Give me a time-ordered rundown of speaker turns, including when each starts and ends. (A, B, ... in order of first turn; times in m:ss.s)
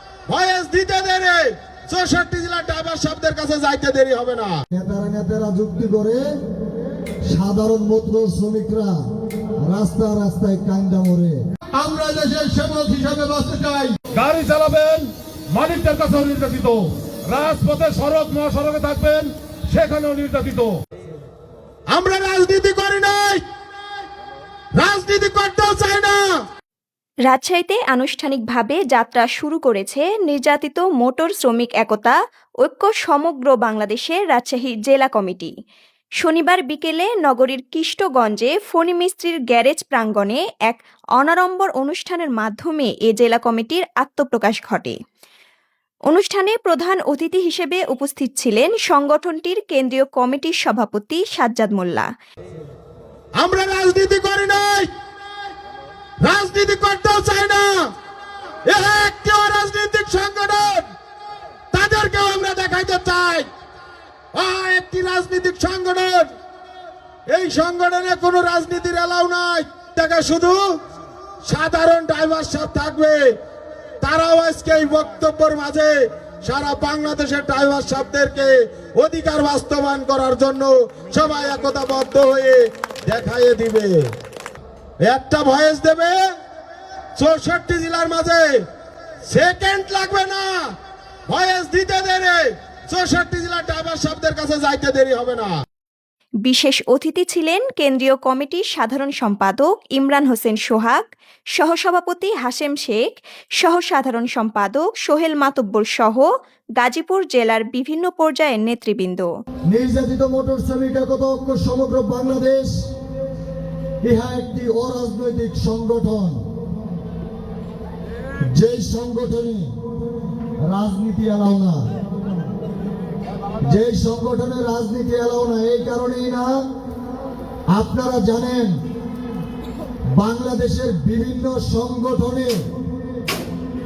0:00.3-0:04.6 A
0:04.7-0:06.2 B
0:07.3-0:09.0 B
0:09.6-0:11.4 B
0:11.7-0:13.9 C
0:14.1-0:20.7 D
0:21.9-0:23.4 A
0:24.8-0:26.2 A
0:27.3-0:35.5 E
0:36.2-0:45.0 E
0:46.1-0:52.0 E
0:53.4-0:54.9 A
0:56.2-0:57.8 A
0:58.7-1:00.9 A
1:01.7-1:03.5 A
1:04.3-1:06.3 A
1:07.3-1:10.6 A
1:11.4-1:13.4 A
1:14.0-1:24.1 A
1:25.0-1:26.2 A
1:27.2-1:28.6 A
1:29.3-1:30.7 A
1:31.3-1:35.5 A
1:36.4-1:49.3 E
1:49.7-1:52.7 B
1:54.0-1:56.4 B
1:58.5-1:59.7 B
2:00.7-2:01.9 B
2:03.6-2:06.6 B
2:07.7-2:08.8 B
2:10.2-2:12.6 B